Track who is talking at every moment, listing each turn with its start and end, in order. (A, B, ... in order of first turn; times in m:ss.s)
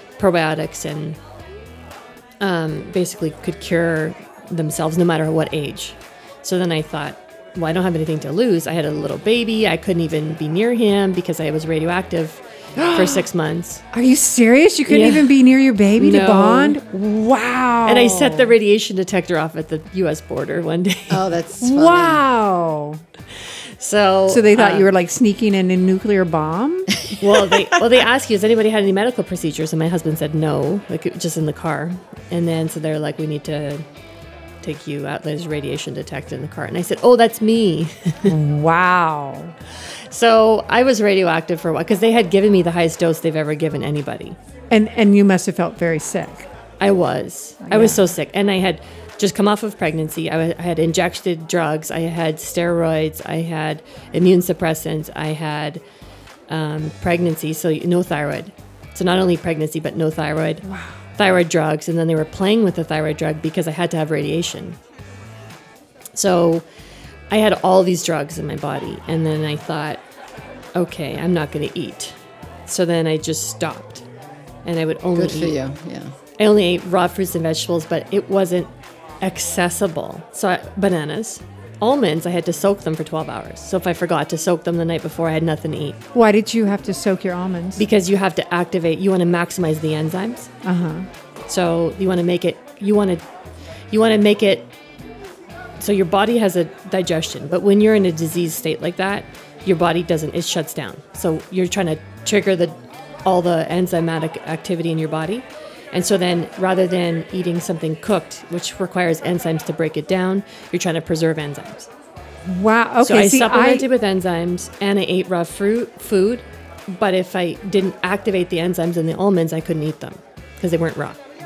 0:00.2-0:01.2 A
0:02.4-0:13.8 A
0:12.8-0:13.3 B
0:13.9-0:18.5 B
0:14.9-0:15.3 A
0:16.0-0:16.8 A
0:17.8-0:21.2 A
0:21.1-0:22.2 C
0:21.6-0:23.0 B
0:23.4-0:24.9 A
0:24.3-0:27.0 B
0:27.2-0:33.8 A
0:34.6-0:38.3 A
0:38.2-0:39.5 B
0:40.1-0:44.4 A
0:44.7-0:46.5 B
0:46.8-0:55.8 A
0:47.6-0:48.0 B
0:56.5-1:04.8 A
1:00.6-1:01.0 B
1:06.1-1:06.6 A
1:07.3-1:10.0 A
1:10.7-1:12.2 A
1:12.7-1:14.0 A
1:14.6-1:15.6 A
1:15.2-1:16.1 C
1:16.4-1:26.0 A
1:26.1-1:27.8 B
1:27.8-1:30.5 A
1:30.6-1:31.1 B
1:31.5-1:33.2 A
1:33.9-1:34.7 A
1:35.8-1:51.9 A
1:52.4-1:53.8 B
1:53.0-2:01.2 A